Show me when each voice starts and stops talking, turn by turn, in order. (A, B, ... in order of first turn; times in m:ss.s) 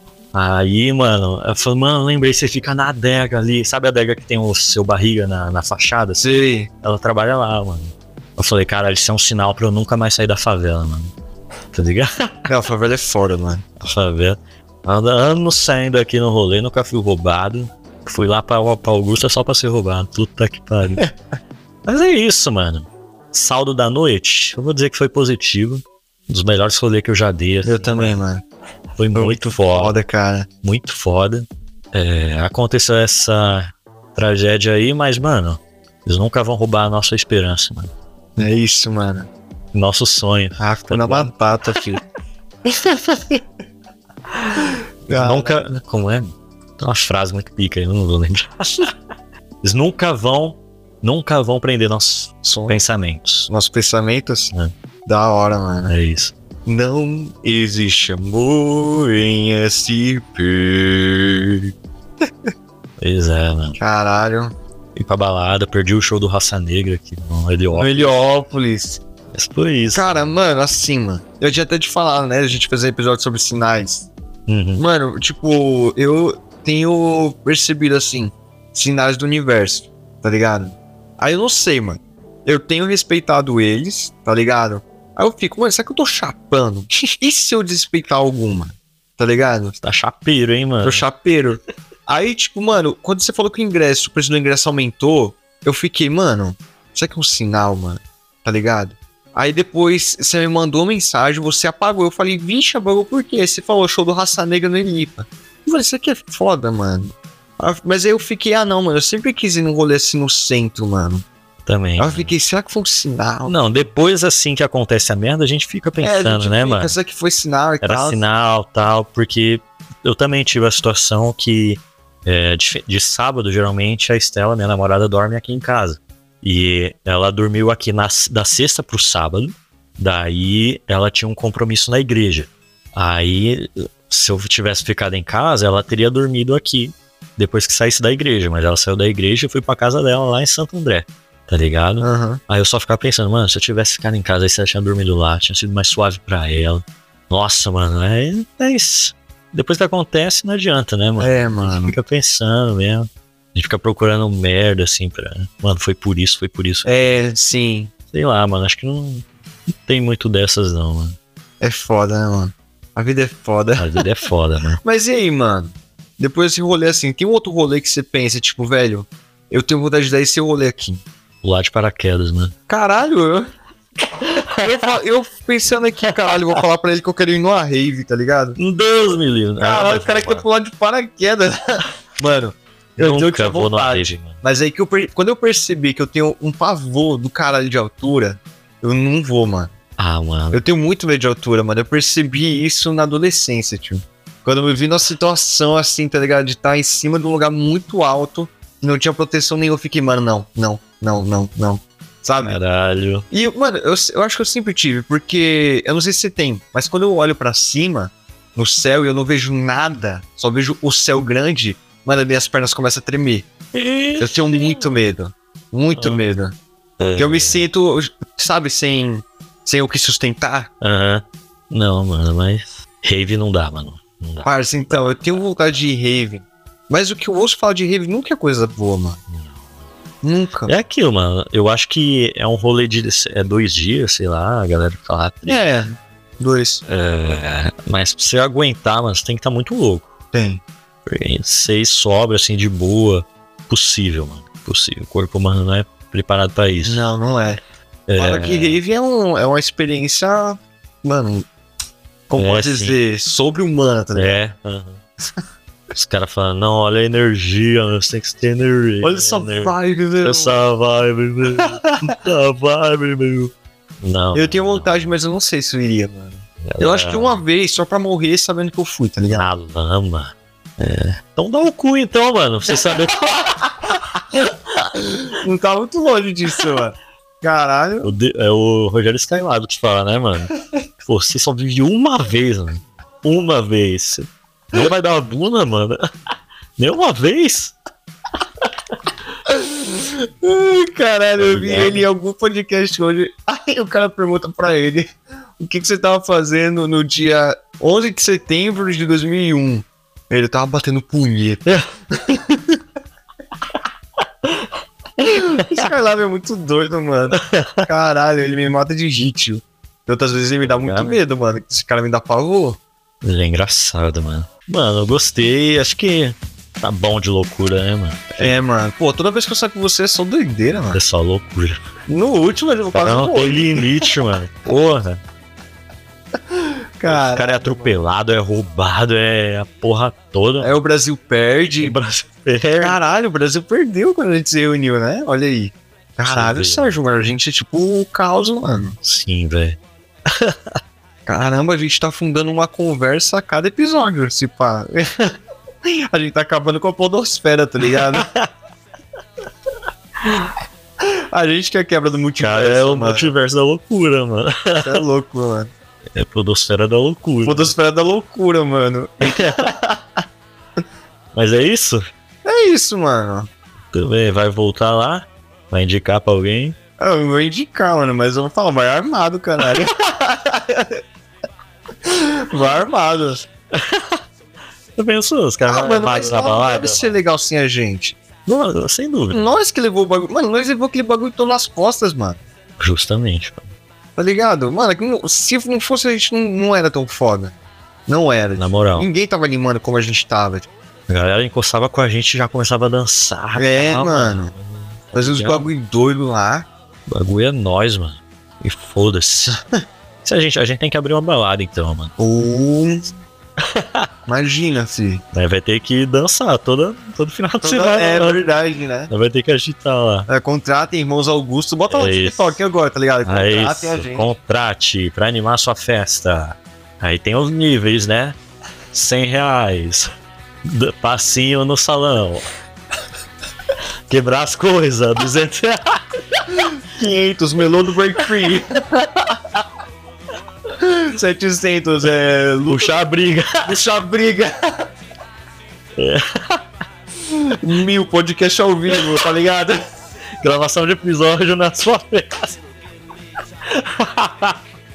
0:00.3-0:06.3 A
0:06.2-0:06.7 B
0:06.8-0:11.1 A
0:11.7-0:12.5 A
0:12.5-0:13.6 B
0:13.8-0:21.1 A
0:21.9-0:28.2 A
0:27.6-0:28.4 B
0:29.0-0:30.0 A
0:29.1-0:30.5 B
0:30.6-0:37.9 A
0:38.4-0:39.3 B
0:39.7-0:41.3 A
0:40.6-0:42.0 B
0:42.6-0:43.4 B
0:45.1-0:45.8 B
0:45.1-0:48.9 A
0:49.6-0:53.5 A
0:52.4-0:52.8 B
0:53.5-0:54.5 B
0:55.0-0:55.9 B
0:55.9-0:56.3 A
0:56.6-1:01.7 B
1:02.2-1:02.5 B
1:03.0-1:03.8 A
1:03.8-1:04.5 B
1:05.0-1:08.1 A
1:07.7-1:09.0 B
1:09.3-1:10.1 A
1:09.9-1:14.1 B
1:14.5-1:14.8 A
1:14.8-1:29.8 B
1:29.8-1:31.0 A
1:30.8-1:51.2 B
1:51.6-1:52.3 A
1:52.0-1:53.6 B
1:53.4-1:56.9 A
1:56.0-1:58.2 B
1:57.8-2:36.9 A
2:22.0-2:22.4 B
2:31.2-2:32.0 B
2:36.8-2:37.9 B
2:38.1-2:39.2 A
2:39.8-2:41.2 A
2:41.6-2:44.0 B
2:43.8-2:44.8 A
2:44.8-2:51.0 B
2:51.4-2:52.5 A
2:52.7-2:53.5 B
2:54.2-2:58.6 B
2:54.4-2:54.6 A
2:58.6-3:00.4 A
2:59.6-3:09.7 B
3:03.0-3:04.4 A
3:10.0-3:10.6 A
3:10.5-3:22.6 B
3:22.4-3:23.3 A
3:23.3-3:33.5 B
3:33.7-3:34.8 A
3:34.2-3:36.6 B
3:36.0-3:36.2 A
3:37.0-3:37.6 A
3:37.2-3:40.7 B
3:40.8-3:45.1 A
3:44.4-3:49.2 B
3:49.3-3:49.7 A
3:50.2-3:50.7 B
3:50.7-3:55.6 A
3:55.5-3:56.8 B
3:56.8-4:00.1 A
4:00.3-4:00.6 B
4:01.0-4:07.0 A
4:06.8-4:07.6 B
4:08.1-4:08.8 A
4:08.2-4:11.5 B
4:12.3-4:14.3 B
4:12.4-4:13.0 A
4:14.1-4:15.0 A
4:15.9-4:25.1 A
4:19.0-4:20.6 B
4:21.5-4:22.1 B
4:24.3-4:29.5 B
4:26.6-4:27.4 A
4:29.3-4:33.7 A
4:34.3-4:38.1 B
4:38.0-4:46.1 A
4:46.8-4:47.7 A
4:49.4-5:02.8 B
4:51.4-4:52.0 A
5:05.2-5:12.8 B
5:07.3-5:07.9 A
5:10.6-5:11.2 A
5:13.2-5:18.6 A
5:18.4-5:21.0 B
5:20.9-5:21.8 A
5:22.1-5:24.1 B
5:22.9-5:25.2 A
5:26.5-5:27.9 B
5:27.1-5:30.7 A
5:30.6-5:32.0 B
5:31.8-5:33.0 A
5:32.8-5:39.0 B
5:36.2-5:37.0 A
5:39.0-5:40.8 A
5:41.2-5:48.3 B
5:48.1-5:48.5 A
5:51.0-5:53.3 B
5:52.4-5:55.0 A
5:54.8-5:55.7 B
5:56.1-5:57.7 A
5:57.4-6:00.0 B
5:59.2-5:59.7 A
6:01.3-6:02.1 A
6:02.4-6:03.5 B
6:03.9-6:06.8 A
6:07.0-6:11.0 B
6:12.0-6:13.5 B
6:13.7-6:14.2 A
6:15.0-6:17.2 A
6:15.6-6:18.2 B
6:18.4-6:19.5 A
6:19.3-6:22.4 B
6:22.8-6:23.7 A
6:24.2-6:27.5 B
6:28.1-6:30.7 B
6:28.6-6:29.1 A
6:31.1-6:35.6 A
6:33.5-6:34.5 B
6:35.1-6:36.7 B
6:37.1-6:39.6 A
6:40.2-6:42.1 A
6:42.2-6:43.1 B
6:43.6-6:44.1 A
6:44.2-6:45.2 B
6:45.3-6:48.4 A
6:47.6-6:49.1 B
6:49.1-6:50.3 A
6:50.3-6:54.3 B
6:51.9-6:52.6 A
6:53.2-6:58.4 A
6:58.9-7:00.1 A
7:00.6-7:02.5 A
7:04.1-7:06.4 A
7:06.7-7:09.4 B
7:10.7-7:13.0 B
7:12.7-7:13.7 A
7:13.6-7:14.9 B
7:16.0-7:16.6 A
7:17.3-7:19.8 B
7:20.4-7:22.6 A
7:23.7-7:24.6 A